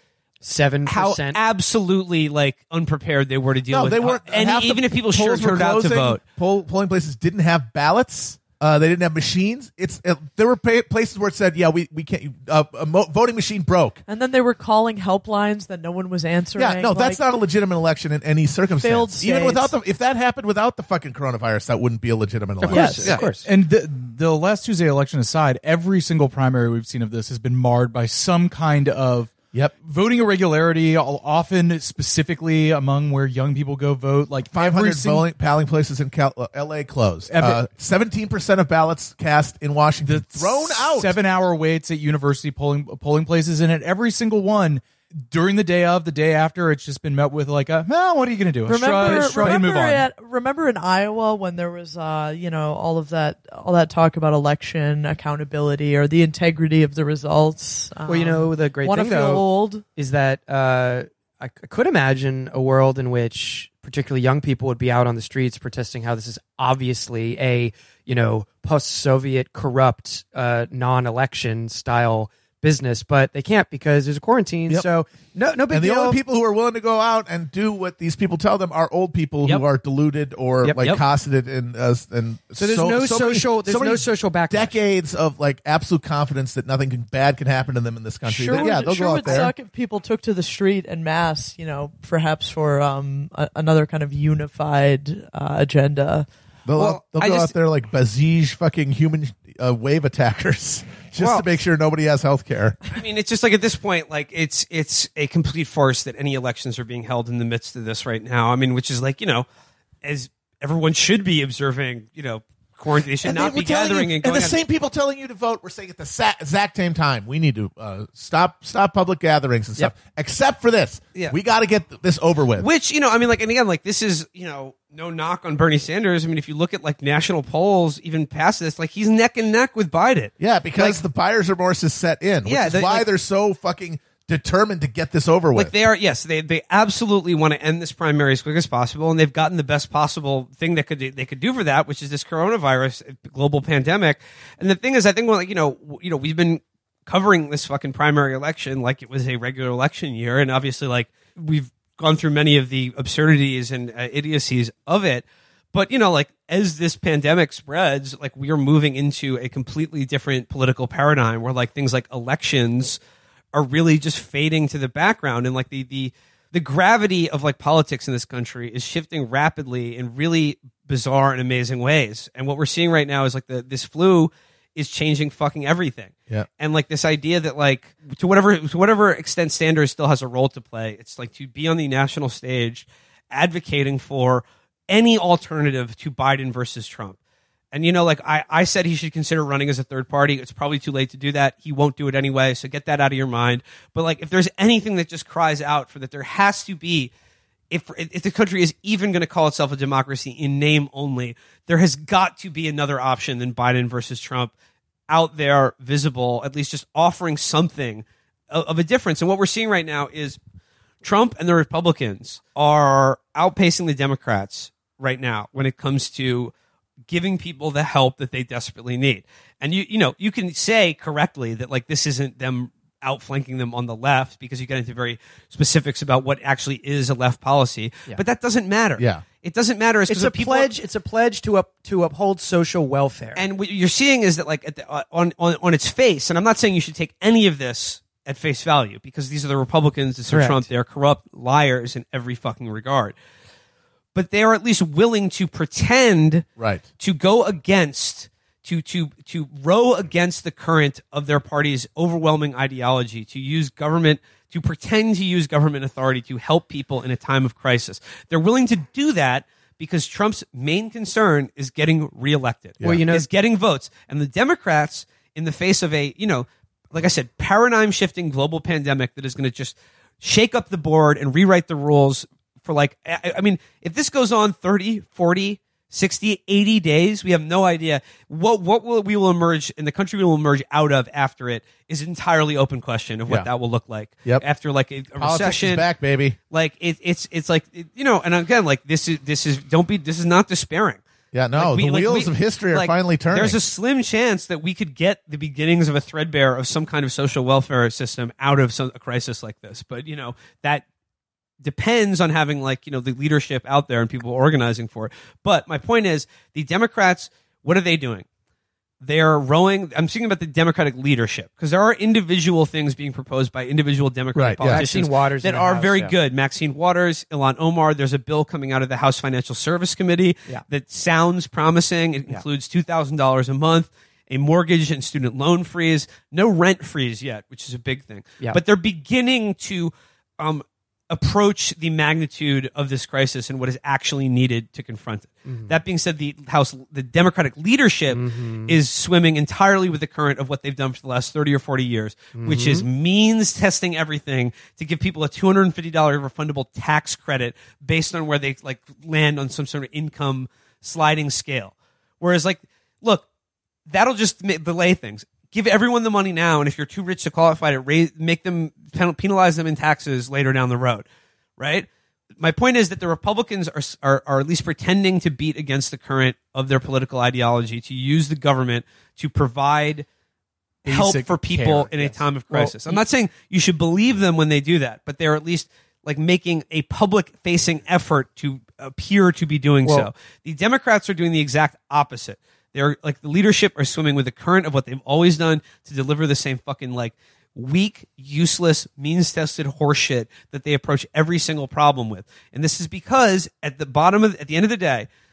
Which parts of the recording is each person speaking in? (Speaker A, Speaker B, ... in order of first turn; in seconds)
Speaker A: 0.4-1.4, 22.7-23.5, 49.1-49.6, 58.1-76.2, 80.6-81.0, 82.6-84.7, 230.1-233.4, 240.3-240.7, 262.8-263.3, 314.6-316.1, 335.5-335.7, 338.1-338.8, 342.4-342.9, 372.5-372.8, 379.8-380.1
Speaker B: 0.9-6.2, 22.9-23.2, 88.5-89.5, 96.8-97.5, 101.2-101.5, 102.9-109.5, 110.0-114.6, 122.6-131.0, 132.4-133.1, 135.6-163.0, 163.5-187.2, 187.7-197.1, 197.7-204.5, 205.1-210.4, 211.0-216.5, 217.1-230.7, 233.3-243.2, 244.1-246.4, 247.0-285.9, 286.5-291.0, 291.6-300.9, 301.6-308.3, 309.0-353.3, 353.9-361.1, 361.6-361.9, 362.4-370.1, 370.9-395.1
Speaker C: 3.7-14.0, 16.6-23.2, 34.5-41.2, 75.7-89.5, 96.7-102.8, 113.2-122.7, 130.4-135.7, 229.0-229.2, 246.6-246.8, 285.2-286.4, 291.3-293.6, 314.4-314.8
Speaker D: 14.1-17.2, 18.8-19.7, 22.7-23.2, 48.7-59.9, 88.3-96.3
Speaker E: 23.2-35.3, 37.3-37.6, 40.0-50.1, 370.9-372.1